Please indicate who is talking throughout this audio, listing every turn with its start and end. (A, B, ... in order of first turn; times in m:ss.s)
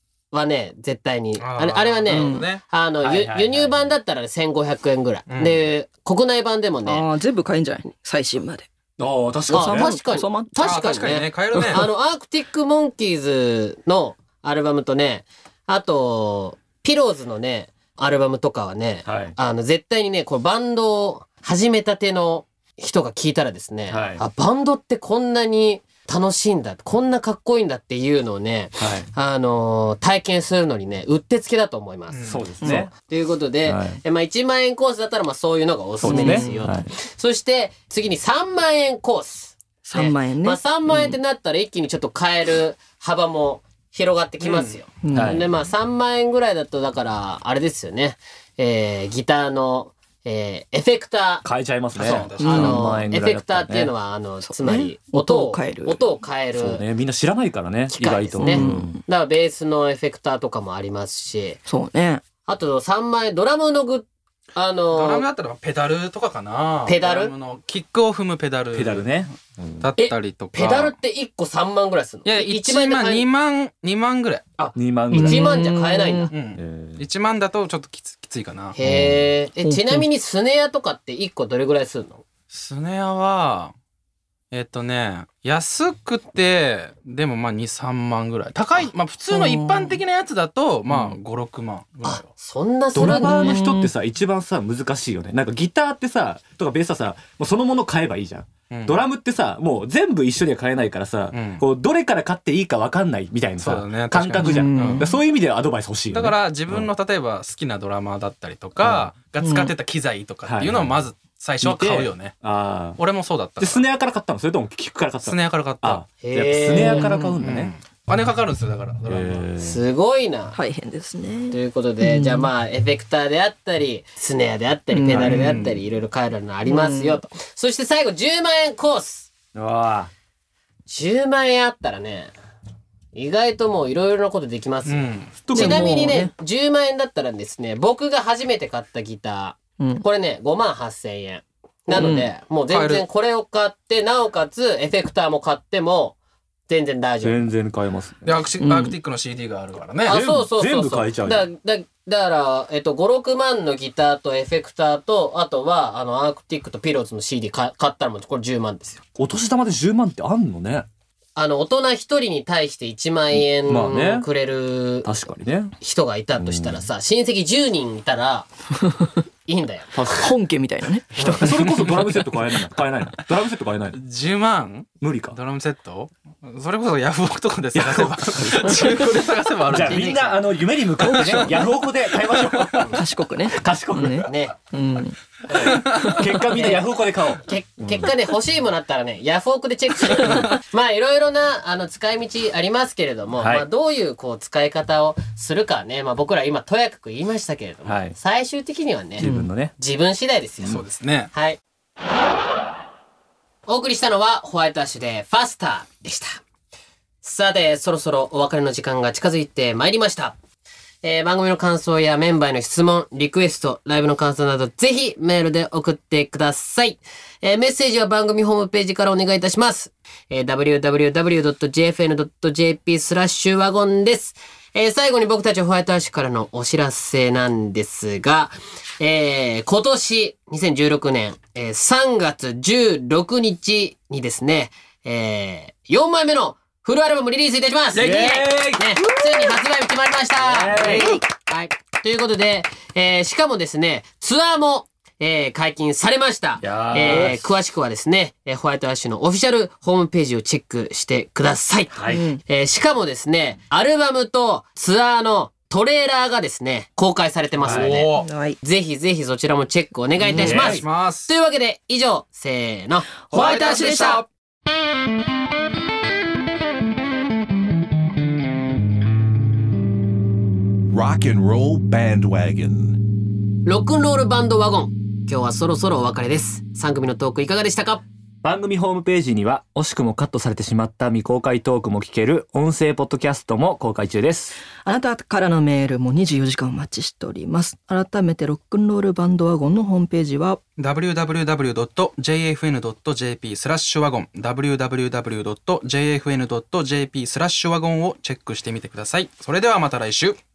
0:00.3-0:07.1 A
0:01.4-0:02.6 B
0:02.1-0:02.5 C
0:03.0-0:03.9 D
0:05.3-0:05.6 B
0:06.8-0:08.7 C
0:09.0-0:10.0 D
0:09.5-0:32.2 A
0:09.5-0:10.5 C
0:10.5-0:11.9 B
0:11.5-0:11.8 C
0:19.0-0:19.4 D
0:23.9-0:24.2 D
0:28.8-0:29.1 D
0:32.1-0:32.5 B
0:32.2-0:32.9 D
0:32.6-0:32.9 C
0:32.9-0:51.4 A
0:33.6-0:34.0 D
0:36.0-0:36.9 D
0:36.0-0:36.7 C
0:39.8-0:41.1 C
0:44.4-0:44.8 B
0:45.0-0:45.4 C
0:45.1-0:45.5 D
0:51.4-0:54.0 D
0:51.9-0:52.8 B
0:52.1-0:56.8 A
0:52.4-0:52.9 C
0:54.4-0:56.0 C
0:56.5-0:59.0 D
0:57.9-1:01.6 A
0:58.4-0:59.0 C
1:01.6-1:02.2 C
1:02.4-1:05.2 A
1:04.9-1:10.9 B
1:06.9-1:07.3 A
1:08.7-1:09.9 D
1:10.0-1:13.2 A
1:12.2-1:14.5 B
1:14.6-1:16.5 A
1:14.7-1:15.6 D
1:15.1-1:16.3 C
1:16.3-1:18.8 B
1:16.4-1:17.0 D
1:18.8-1:22.2 A
1:18.8-1:19.3 D
1:19.6-1:20.0 C
1:22.5-1:23.7 B
1:24.5-1:32.4 B
1:29.3-1:30.0 C
1:32.0-1:33.6 A
1:32.9-1:46.9 D
1:33.0-1:33.9 C
1:38.7-1:39.0 B
1:41.3-1:41.6 B
1:43.6-1:45.0 B
1:44.4-1:45.2 C
1:46.1-1:52.4 B
1:48.8-1:49.1 D
1:49.4-1:49.7 C
1:50.4-1:51.0 D
1:51.6-1:53.0 D
1:53.0-1:53.8 B
1:53.6-1:57.7 D
1:55.2-1:56.0 B
1:56.1-1:57.2 A
1:56.8-1:57.4 C
1:57.4-1:59.5 B
1:59.1-1:59.8 D
1:59.6-2:00.6 A
2:00.5-2:02.5 C
2:01.5-2:09.3 A
2:04.9-2:05.6 C
2:05.1-2:05.8 B
2:06.7-2:07.2 C
2:09.5-2:10.1 D
2:10.9-2:12.3 A
2:13.1-2:26.2 A
2:14.8-2:15.4 B
2:15.3-2:16.2 D
2:15.5-2:16.3 C
2:19.8-2:20.0 C
2:21.9-2:22.3 C
2:22.7-2:23.0 B
2:26.7-2:27.4 A
2:27.2-2:28.4 D
2:28.2-2:30.2 B
2:28.6-2:28.9 C
2:30.0-2:39.0 A
2:30.1-2:31.5 D
2:39.2-2:40.9 D
2:41.4-2:45.1 A
2:43.3-2:44.3 D
2:45.0-2:45.7 D
2:45.8-2:48.5 A
2:46.4-2:46.9 D
2:49.4-2:49.9 A
2:49.9-2:50.3 D
2:50.1-2:51.3 C
2:51.2-2:51.4 A
2:51.2-2:54.0 D
2:51.6-2:51.9 B
2:53.9-3:00.3 B
2:55.0-2:55.4 D
2:57.7-2:58.9 D
2:59.7-3:03.0 D
2:59.8-3:00.3 A
3:01.1-3:01.7 C
3:02.9-3:05.2 C
3:03.5-3:04.3 D
3:04.1-3:04.6 A
3:05.5-3:05.9 A
3:05.5-3:08.1 D
3:06.5-3:06.9 A
3:07.4-3:19.2 A
3:13.4-3:13.7 D
3:17.8-3:18.2 D
3:19.2-3:19.7 D
3:19.2-3:19.5 C
3:19.8-3:21.6 A
3:20.6-3:21.3 B
3:23.7-3:26.4 A
3:27.2-3:30.4 A
3:31.0-4:24.2 A
3:57.9-3:59.6 D
4:00.4-4:01.2 D
4:00.9-4:01.2 C
4:06.6-4:07.5 D
4:11.9-4:12.2 D
4:12.1-4:12.4 C
4:17.6-4:18.1 D
4:17.6-4:18.3 B
4:18.1-4:18.6 C
4:20.2-4:20.6 C
4:20.3-4:20.8 D
4:20.6-4:21.3 B
4:23.2-4:24.2 C
4:23.3-4:24.3 B
4:30.9-4:33.0 E
4:33.6-4:38.0 A
4:38.4-4:44.6 D
4:44.6-4:50.6 C
4:50.8-5:00.4 B